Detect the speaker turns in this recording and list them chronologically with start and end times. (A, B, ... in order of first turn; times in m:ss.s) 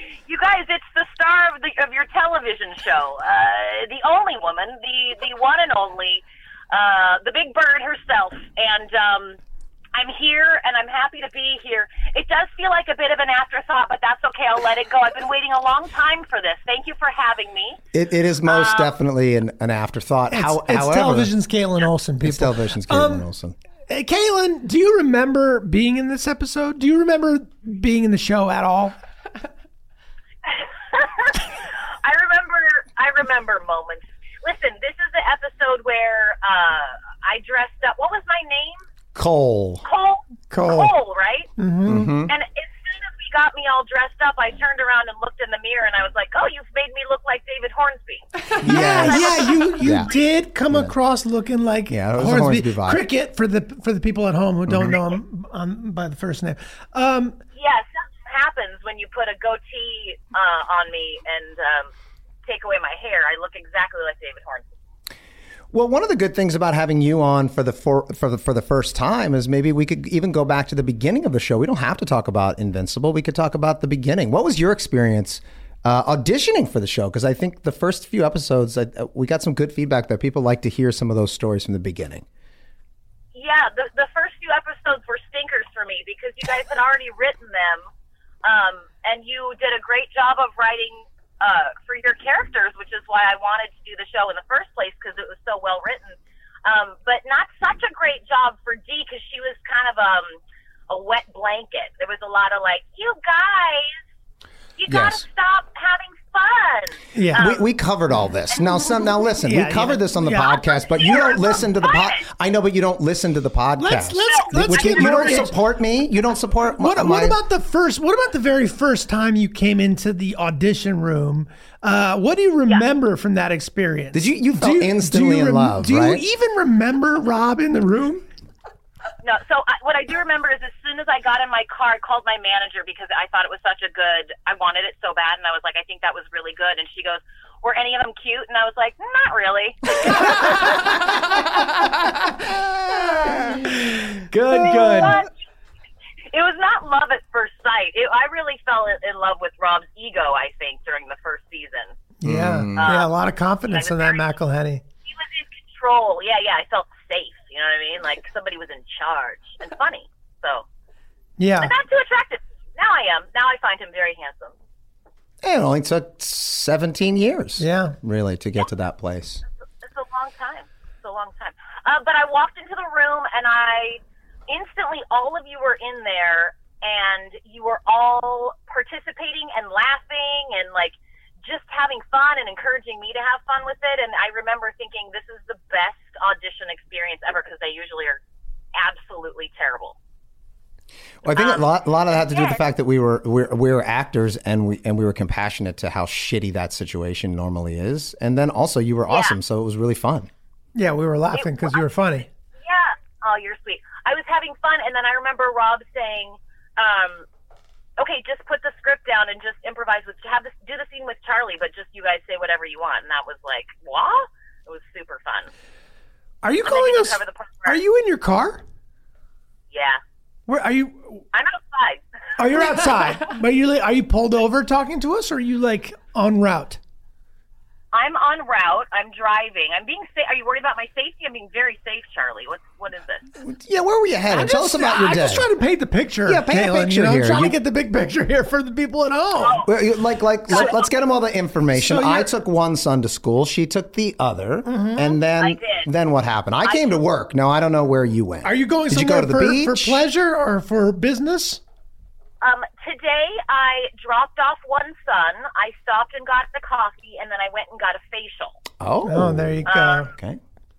0:00.3-0:09.4 A
0:09.9-0:17.8 A
0:17.9-0:21.3 B
0:18.4-0:18.9 A
0:20.3-0:23.2 C
0:22.2-0:23.6 B
0:23.9-0:29.0 C
0:30.4-0:38.8 A
0:39.1-0:39.8 B
0:39.8-0:41.5 A
0:40.5-0:40.9 C
0:41.6-0:42.1 C
0:41.9-0:42.3 B
0:42.3-0:50.2 A
0:48.6-0:57.4 C
0:48.6-0:50.1 B
0:51.9-0:53.0 B
0:54.7-0:55.0 B
0:57.5-1:01.9 A
1:02.4-1:04.7 A
1:05.7-1:22.2 B
1:23.3-1:27.8 A
1:28.4-1:44.0 A
1:44.8-1:47.6 A
1:44.9-1:45.2 B
1:47.1-1:47.6 C
1:47.3-1:57.4 B
1:48.6-1:48.8 A
1:49.4-1:50.6 C
1:50.8-1:52.2 A
1:53.8-1:55.5 C
1:54.3-1:55.4 A
1:56.8-2:08.2 C
2:04.1-2:06.2 B
2:09.2-2:20.8 A
2:22.4-2:25.3 C
2:24.5-2:25.3 A
2:26.3-2:31.9 A
2:32.2-2:34.8 C
2:32.2-2:32.9 B
2:32.8-2:33.1 A
2:33.7-2:34.2 A
2:35.1-2:40.6 A
2:41.4-2:41.7 C
2:41.6-2:44.5 A
2:45.4-2:49.4 B
2:47.6-2:48.0 C
2:49.8-3:08.2 A
3:08.7-3:10.0 A
3:11.2-3:20.3 B
3:11.3-3:11.6 A
3:12.3-3:12.6 A
3:19.1-3:19.3 A
3:20.7-3:22.3 C
3:21.3-3:21.8 A
3:22.6-3:27.2 A
3:28.0-3:35.5 A
3:36.4-3:38.6 C
3:36.6-3:37.8 A
3:39.7-3:40.0 A
3:40.5-3:41.2 C
3:41.3-3:42.0 A
3:42.4-3:46.8 C
3:47.9-3:53.3 A
3:53.4-3:55.5 B
3:54.3-3:59.6 C
3:56.2-3:57.5 B
3:59.3-3:59.7 A
3:59.6-4:10.0 B
4:00.5-4:00.9 A
4:01.7-4:02.3 C
4:04.6-4:05.2 C
4:05.4-4:05.9 A
4:06.6-4:07.0 A
4:08.4-4:11.6 C
4:12.4-4:18.6 A
4:18.8-4:20.4 B
4:19.1-4:20.1 C
4:19.7-4:20.1 A